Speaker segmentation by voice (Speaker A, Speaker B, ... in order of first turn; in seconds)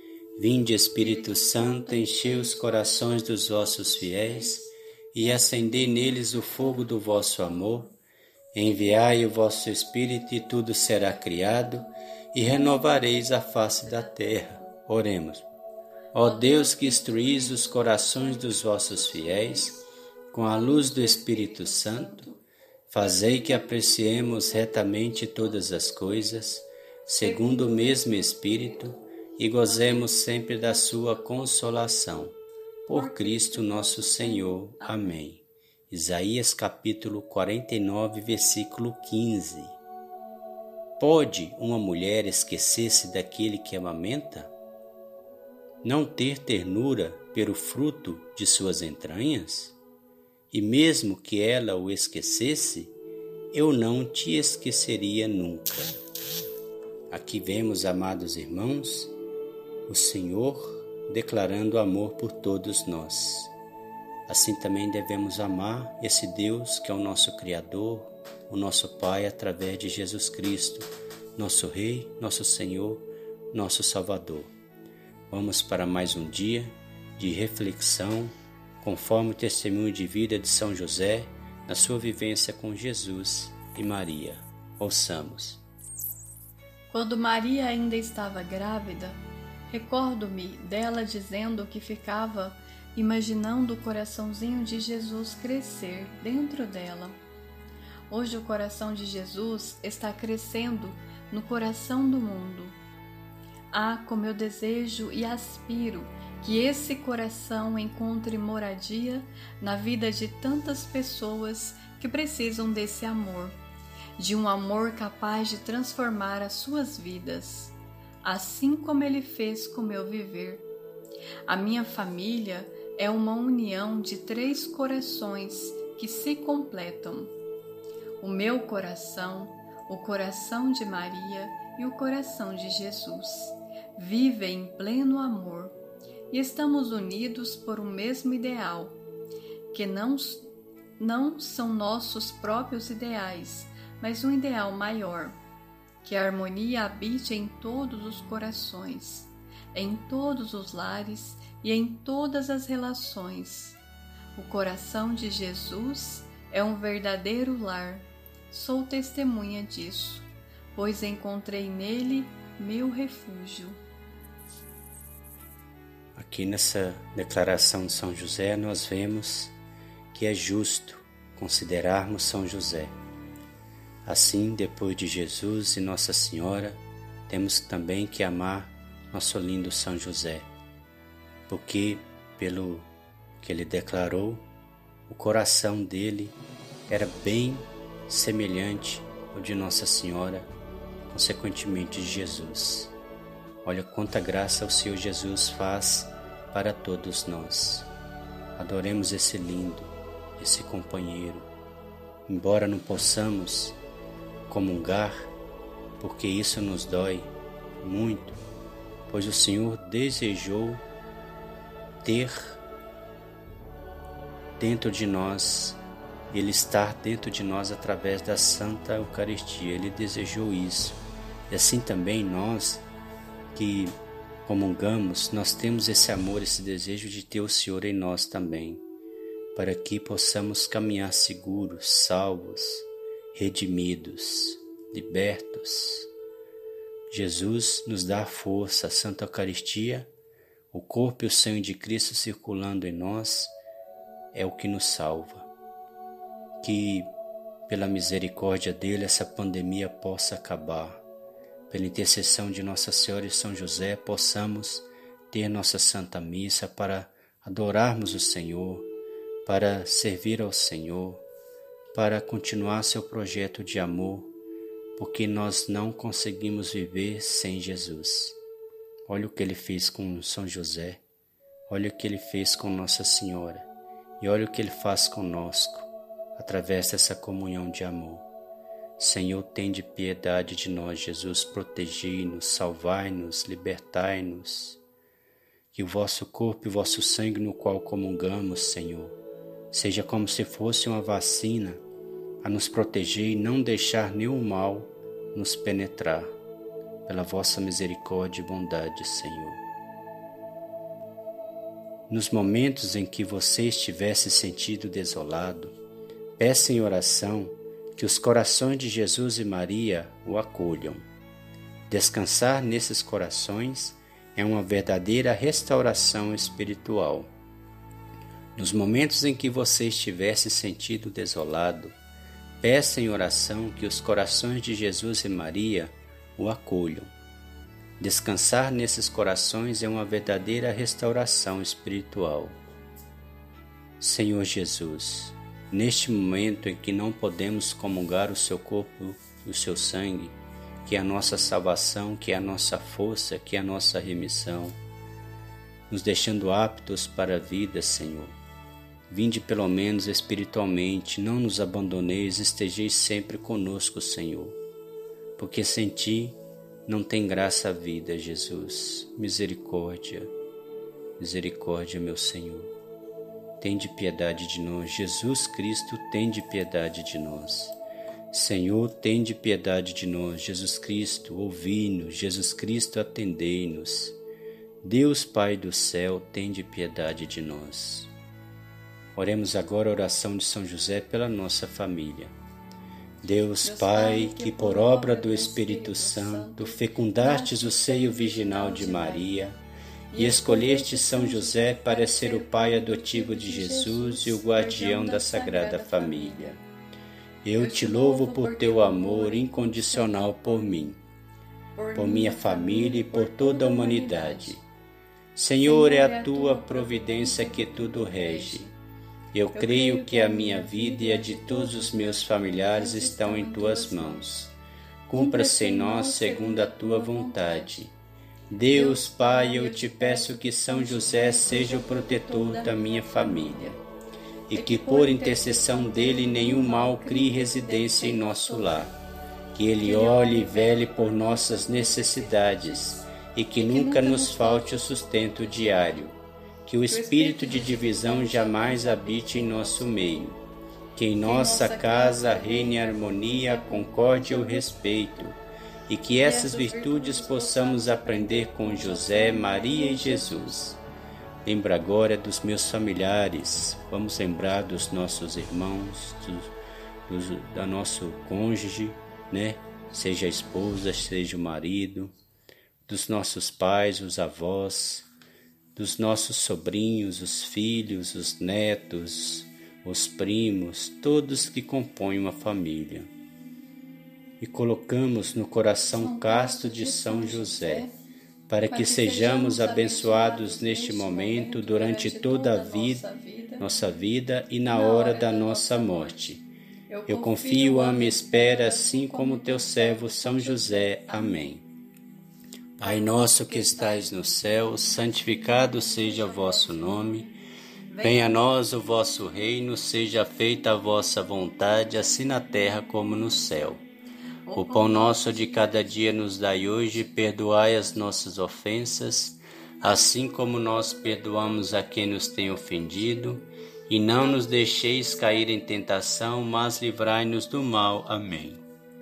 Speaker A: 0.4-8.0, 8.5-15.5, 16.1-19.8, 20.3-22.3, 22.9-39.8, 41.0-44.5, 45.8-49.8, 50.5-53.0, 53.5-56.0, 57.1-59.1, 59.9-63.5, 64.3-74.5, 75.3-85.6, 166.2-169.6, 170.1-173.0, 174.1-180.5, 181.5-182.9, 183.4-184.5, 185.1-186.4, 186.9-190.5, 191.1-192.9, 193.6-197.9, 198.6-201.5, 202.3-203.8, 204.5-205.3, 206.0-208.4, 209.1-210.8, 212.0-212.6, 214.6-215.8, 216.3-222.9, 223.5-228.8, 229.6-236.1, 237.1-240.1, 240.7-243.5, 244.3-245.5, 246.6-247.1, 247.7-251.0, 251.7-258.9, 259.4-261.3, 261.9-264.3, 265.0-268.4, 269.1-271.0, 271.7-273.7, 274.2-278.3, 279.0-284.8, 285.7-289.1, 289.7-291.8, 292.4-296.3, 297.1-299.6, 302.1-305.8, 306.4-311.1, 311.9-317.3, 318.6-322.0, 322.6-327.1, 328.0-332.6, 334.0-344.8, 345.9-348.4, 349.1-354.6, 355.4-360.3, 361.2-362.7, 363.6-367.8, 368.3-374.2, 374.8-378.1, 379.1-382.3, 383.2-389.6, 390.2-396.6, 397.4-401.0, 401.9-404.6, 405.4-408.7, 409.3-414.5, 415.1-417.9, 418.5-423.8, 424.5-429.0, 429.5-440.4, 440.9-450.8, 451.4-456.5, 457.1-462.1, 462.9-465.1, 465.8-473.1, 474.4-477.9, 478.5-483.0, 483.6-486.5, 487.1-491.7, 492.8-497.3, 498.0-503.8, 504.6-518.6
Speaker B: 1.0-4.8, 5.3-6.5, 13.6-14.7, 16.2-19.8, 20.4-22.4, 27.2-28.8, 29.6-31.7, 32.9-35.2, 86.9-97.2, 98.1-102.8, 103.7-113.6, 114.2-120.7, 121.5-127.3, 128.2-135.8, 136.3-139.0, 139.7-145.4, 146.0-153.8, 154.4-163.8, 383.6-389.3, 390.1-396.6, 397.6-400.4, 401.8-404.6, 405.6-408.7, 409.5-414.4, 415.1-417.8, 418.7-423.8, 424.5-428.9, 429.8-432.8, 433.6-436.0, 436.9-440.3, 441.2-444.9, 446.2-450.6, 475.9-477.9, 478.7-483.7, 484.7-486.2, 486.9-491.4, 492.8-494.2, 495.5-497.3, 497.9-498.5, 504.5-505.9